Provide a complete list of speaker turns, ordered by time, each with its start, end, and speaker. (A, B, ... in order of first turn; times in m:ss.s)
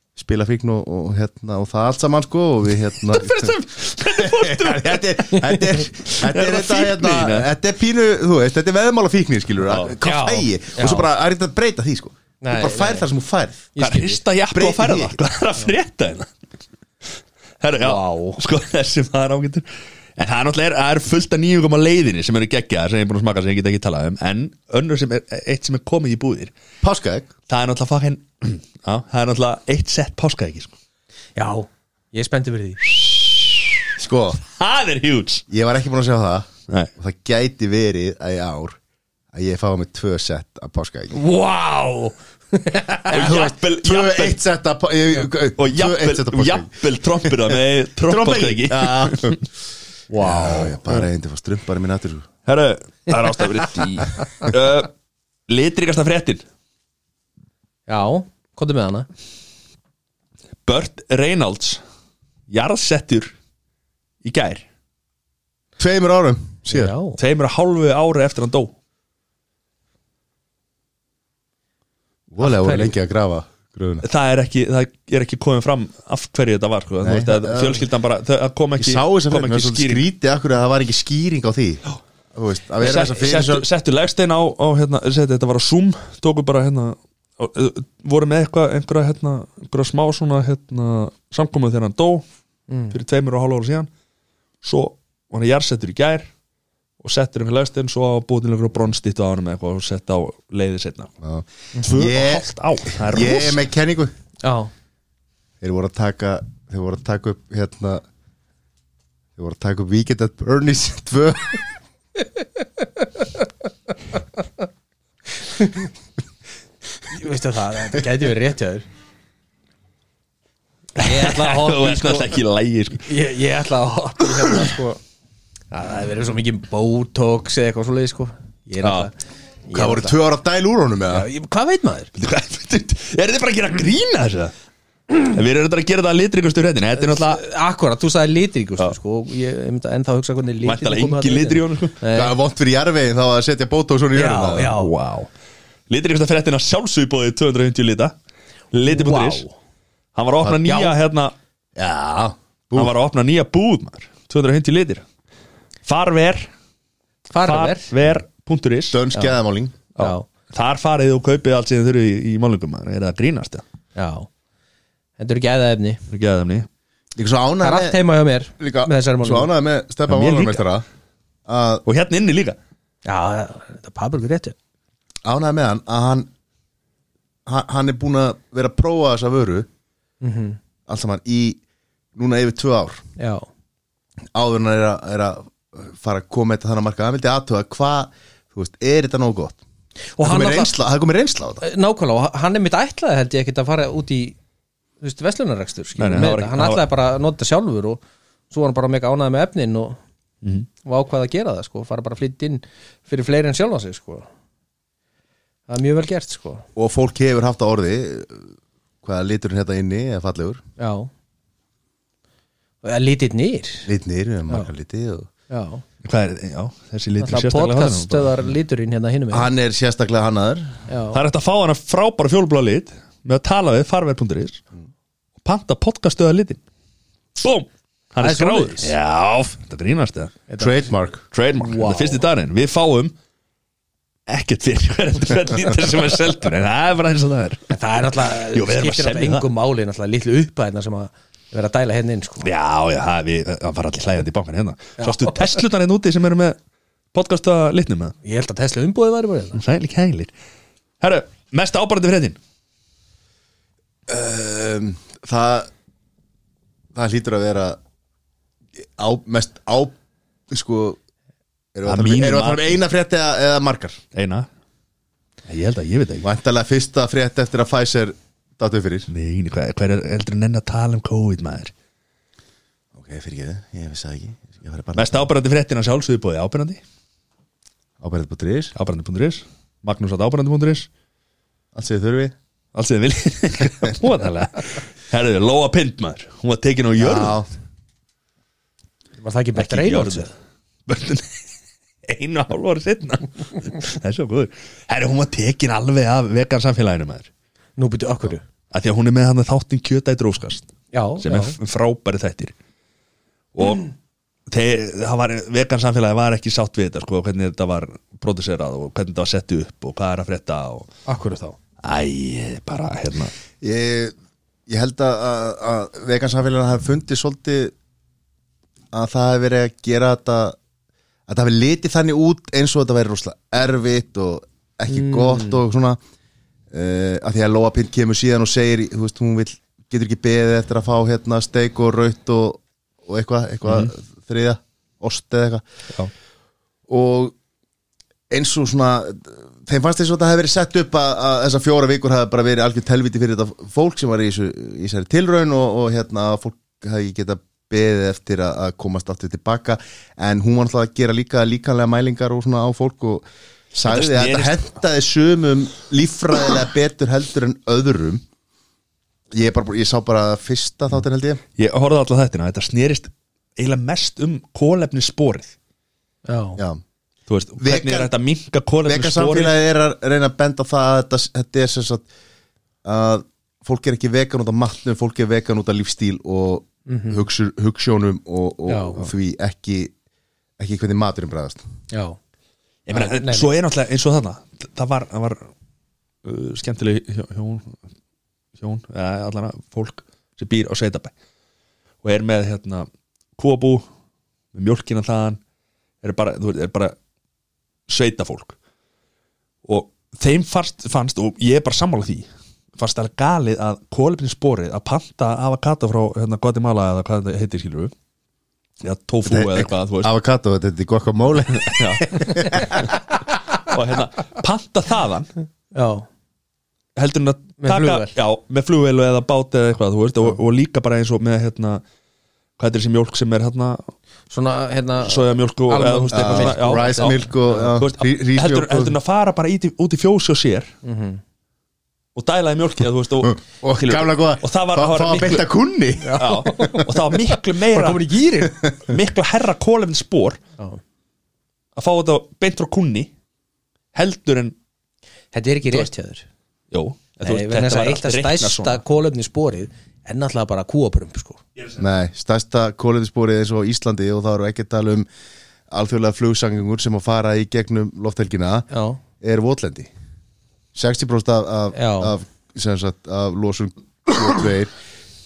0:00.2-0:13.7 A
0:03.1-0:05.2 B
0:05.3-0:05.8 C
0:06.1-0:07.5 B
0:09.6-0:09.9 B
0:10.0-0:11.0 C
0:12.4-0:13.1 C
0:13.7-0:14.2 C
0:13.8-0:16.3 B
0:14.5-0:15.2 A
0:17.6-0:19.6 B
0:17.8-0:18.4 C
0:20.2-0:26.5 B
0:26.8-0:27.3 A
0:27.5-0:30.8 B
0:31.4-0:33.0 C
0:33.0-0:33.8 B
0:34.0-0:34.4 A
0:34.5-0:35.4 B
0:35.5-0:38.8 A
0:39.3-0:41.2 A
0:41.1-0:43.1 C
0:43.0-0:44.4 B
0:43.1-0:46.7 A
0:45.6-0:49.4 B
0:47.2-0:49.4 A
0:50.1-0:50.7 C
0:50.2-0:52.3 A
0:52.4-0:54.9 B
0:55.5-0:56.4 B
0:57.9-0:59.1 C
1:00.6-1:01.8 B
1:02.5-1:03.3 B
1:04.2-1:04.6 B
1:05.8-1:06.9 A
1:06.7-1:07.2 C
1:07.2-1:08.7 B
1:12.3-1:14.0 A
1:12.4-1:12.9 C
1:14.0-1:20.0 B
1:17.0-1:17.8 A
1:18.8-1:21.8 A
1:22.3-1:23.6 A
1:22.8-1:32.2 B
1:32.7-1:33.0 C
1:32.9-1:33.9 B
1:34.6-1:36.3 B
1:37.0-1:41.1 B
1:41.2-1:44.1 A
1:41.8-1:43.6 B
1:44.4-1:44.7 C
1:45.6-1:48.0 A
1:49.4-1:51.6 A
1:55.5-1:55.9 C
1:57.1-1:58.8 C
2:01.0-2:02.3 C
2:01.0-2:03.1 B
2:03.0-2:05.0 C
2:05.7-2:09.1 C
2:08.8-2:09.1 B
2:09.7-2:10.1 C
2:09.7-2:11.3 A
2:11.1-2:12.1 C
2:12.1-2:14.5 B
2:15.1-2:17.4 B
2:17.0-2:22.3 C
2:20.6-2:22.0 B
2:22.1-2:24.7 A
2:24.1-2:24.9 C
2:24.7-2:25.3 B
2:25.9-2:28.1 B
2:28.7-2:29.4 B
2:28.9-2:29.6 C
2:30.1-2:31.3 B
2:30.6-2:30.9 C
2:31.8-2:32.9 A
2:32.7-2:35.0 B
2:35.8-2:36.5 B
2:37.3-2:37.9 C
2:37.4-2:39.0 B
2:38.9-2:39.8 A
2:40.0-2:40.2 C
2:40.0-2:43.6 B
2:44.0-2:44.3 C
2:45.2-2:46.0 C
2:46.1-2:46.7 B
2:47.2-2:48.0 A
2:47.6-2:49.5 C
2:48.6-2:50.8 A
2:50.1-2:50.6 B
2:51.5-2:51.8 A
2:51.8-2:52.6 B
2:53.0-2:54.6 C
2:55.2-2:56.3 A
2:57.4-2:59.7 A
3:00.2-3:00.6 C
3:00.9-3:01.6 A
3:02.2-3:03.0 A
3:03.2-3:03.5 C
3:04.3-3:09.6 A
3:10.2-3:10.7 C
3:10.2-3:11.6 A
3:11.6-3:14.4 C
3:15.0-3:20.0 C
3:16.0-3:16.8 B
3:20.4-3:20.7 B
3:20.8-3:24.3 C
3:25.7-3:26.6 C
3:26.8-3:30.6 A
3:30.8-3:31.1 C
3:32.8-3:33.9 C
3:33.8-3:35.3 A
3:35.5-3:35.8 C
3:36.0-3:38.4 B
3:37.2-3:39.5 C
3:39.3-3:40.8 A
3:40.9-3:41.2 C
3:41.1-3:44.6 B
3:45.4-3:46.6 B
3:47.4-3:50.4 B
3:48.2-3:48.9 C
3:50.5-3:50.8 C
3:50.6-3:51.2 A
3:51.3-3:53.1 B
3:51.6-3:52.2 C
3:54.3-3:57.7 B
3:57.7-4:02.5 C
3:58.3-3:59.5 B
4:02.4-4:06.6 B
4:05.0-4:05.5 C
4:07.1-4:08.2 B
4:08.2-4:09.6 C
4:09.5-4:10.3 B
4:11.0-4:12.4 B
4:14.1-4:15.7 A
4:16.9-4:17.8 A
4:19.0-4:19.9 A
4:20.5-4:21.0 A
4:21.7-4:24.0 A
4:21.8-4:22.8 B
4:24.1-4:24.5 B
4:25.5-4:26.3 B
4:26.2-4:29.1 A
4:29.1-4:31.7 B
4:32.9-4:35.2 A
4:35.0-4:36.8 B
4:38.0-4:38.7 A
4:38.7-4:40.9 B
4:41.7-4:42.3 A
4:42.7-4:47.4 B
4:47.0-4:47.5 A
4:49.2-4:50.3 C
4:49.5-4:50.3 B
4:50.9-4:51.3 B
4:52.0-4:57.3 B
4:57.8-4:58.4 C
4:58.7-5:00.7 B
5:00.9-5:01.6 C
5:01.2-5:02.5 B
5:03.5-5:03.9 B
5:04.5-5:10.9 B
5:11.1-5:11.6 C
5:11.8-5:13.3 B
5:13.6-5:14.1 A
5:14.7-5:17.7 A
5:18.9-5:20.6 A
5:21.3-5:26.0 A
5:24.9-5:25.6 C
5:26.7-5:35.6 A
5:33.6-5:33.9 B
5:36.9-5:37.3 A
5:38.3-5:58.2 A
5:53.8-5:54.6 B
5:59.3-6:01.4 A
6:01.6-6:05.5 B
6:06.2-6:06.6 C
6:06.6-6:06.8 A
6:07.3-6:09.6 B
6:07.6-6:08.1 A
6:08.8-6:12.0 A
6:12.8-6:19.9 A
6:16.9-6:17.2 C
6:18.7-6:19.1 C
6:20.6-6:21.6 A
6:21.9-6:22.2 C
6:22.9-6:25.4 B
6:22.9-6:23.5 C
6:26.2-6:27.8 B
6:28.6-6:31.1 B
6:32.0-6:33.8 B
6:34.5-6:35.4 B
6:36.0-6:36.9 B
6:37.9-6:38.5 B
6:39.6-6:42.3 B
6:42.8-6:47.9 B
6:48.8-6:50.1 B
6:49.2-6:52.8 A
6:51.5-6:53.0 B
6:53.5-6:55.3 B
6:55.7-6:56.1 C
6:57.0-7:01.8 B
6:57.6-6:58.1 C
7:02.6-7:03.9 B
7:04.3-7:07.6 C
7:05.0-7:10.7 B
7:06.1-7:09.0 A
7:10.8-7:11.2 C
7:12.1-7:15.5 B
7:13.5-7:16.3 A
7:16.0-7:17.1 C
7:16.2-7:18.0 B
7:17.7-7:18.6 C
7:18.9-7:20.4 B
7:21.8-7:23.1 B
7:23.9-7:24.5 B
7:25.3-7:26.2 C
7:26.7-7:28.8 B
7:27.2-7:31.4 C
7:31.6-7:31.8 B
7:31.8-7:35.1 A
7:35.7-7:38.7 A
7:38.7-7:39.0 C
7:39.2-7:39.9 A
7:40.7-7:44.7 A
7:41.7-7:42.1 C